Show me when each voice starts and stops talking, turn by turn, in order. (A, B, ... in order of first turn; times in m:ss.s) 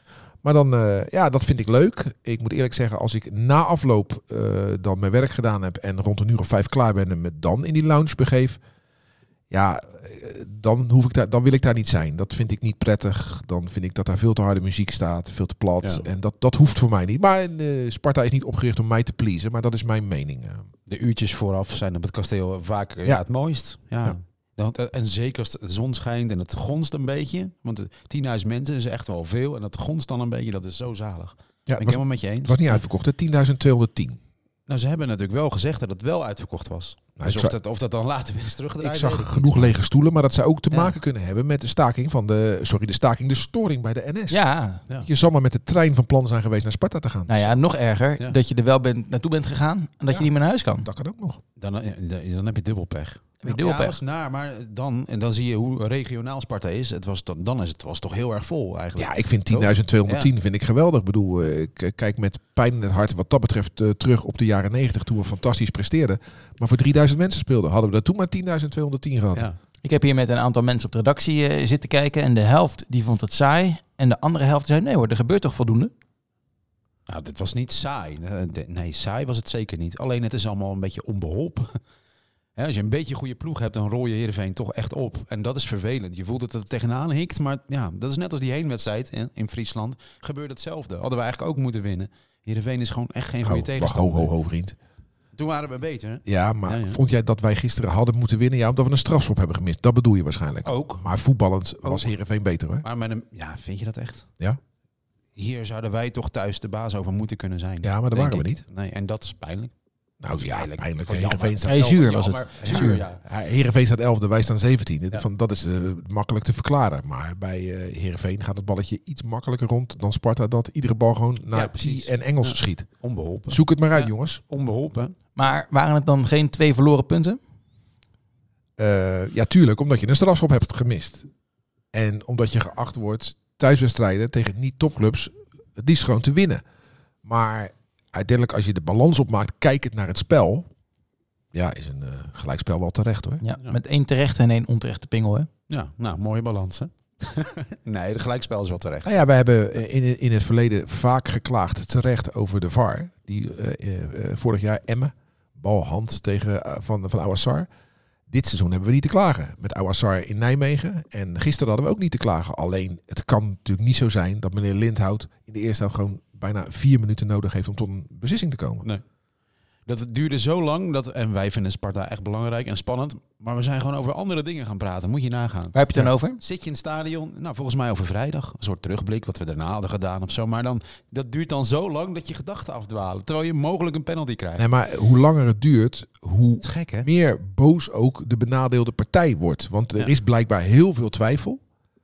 0:00.4-0:08.6 A
0:09.5-0:20.7 A
0:20.9-0:32.8 B
0:31.7-0:34.2 A
0:34.7-0:39.8 B
0:37.2-0:37.6 A
0:38.8-0:44.4 A
0:44.3-0:44.8 C
0:45.0-0:47.6 A
0:47.3-0:50.9 C
0:50.1-0:51.4 A
0:51.6-1:00.3 B
0:53.4-0:54.0 C
0:59.0-1:09.5 A
1:09.8-1:15.9 C
1:17.1-1:21.8 B
1:22.6-1:34.3 B
1:33.4-1:34.8 A
1:35.3-1:37.0 B
1:36.2-1:42.8 A
1:40.6-1:41.0 B
1:42.8-1:44.3 B
1:45.3-1:49.7 B
1:47.8-1:48.6 A
1:50.2-1:52.1 A
1:50.5-1:53.2 B
1:51.6-1:53.0 C
1:52.6-2:02.9 A
2:01.5-2:05.2 B
2:03.5-2:04.4 A
2:05.4-2:07.4 C
2:08.8-2:11.2 A
2:11.9-2:16.6 A
2:17.2-2:20.7 A
2:21.5-2:23.4 A
2:23.4-2:25.5 C
2:25.7-2:29.1 B
2:29.0-2:37.7 A
2:38.3-2:48.9 A
2:49.8-2:55.8 B
2:55.7-2:56.4 C
2:56.4-3:04.7 B
3:04.6-3:11.6 A
3:06.6-3:07.1 B